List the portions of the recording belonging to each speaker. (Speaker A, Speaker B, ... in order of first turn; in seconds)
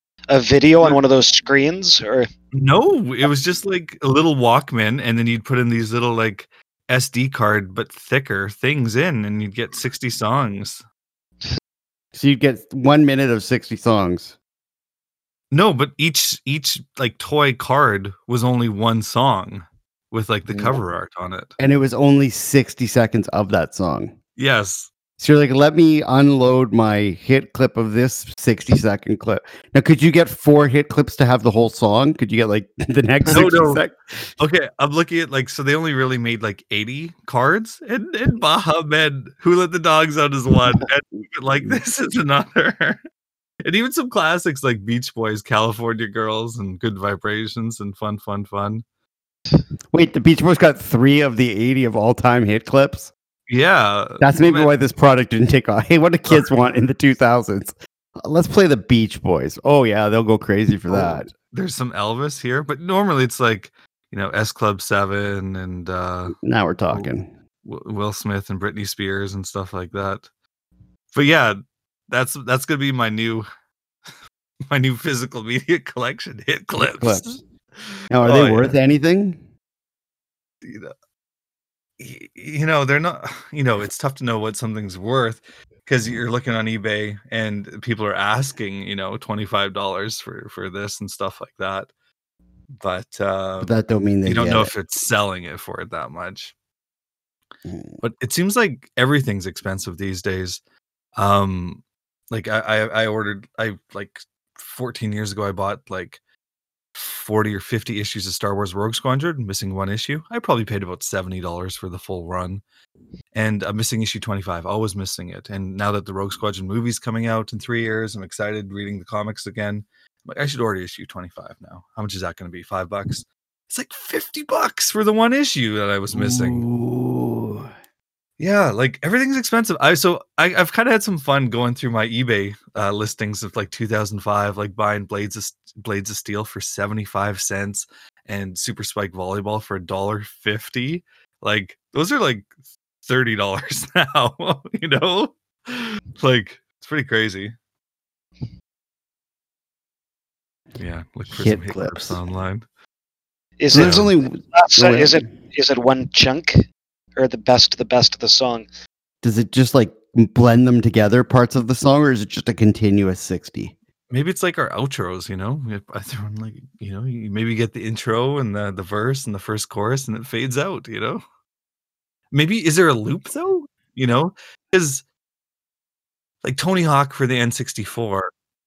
Speaker A: 0.3-2.3, 153.6-156.6, 157.2-158.7
Speaker B: 2.5-10.8, 15.5-21.5, 24.4-24.9, 33.3-33.8, 34.4-43.0, 43.6-48.8, 53.5-54.7, 60.9-66.3, 67.6-70.3, 71.1-71.6, 72.1-73.5, 74.7-78.8, 80.6-80.9, 82.0-91.9, 92.8-96.5, 98.0-100.6, 101.2-106.2, 106.9-112.6, 113.3-126.6, 128.4-142.5, 143.0-147.5, 150.8-152.6, 153.7-154.1, 164.1-171.2, 172.3-175.0, 176.4-178.3
Speaker C: 12.1-14.3, 20.5-20.8, 21.6-24.1, 25.2-34.3, 49.9-53.1, 54.2-61.3, 66.4-67.3, 76.8-77.2, 78.1-79.4, 93.6-94.7, 97.6-98.0, 126.1-127.7, 151.3-152.2, 153.7-155.2, 159.2-163.7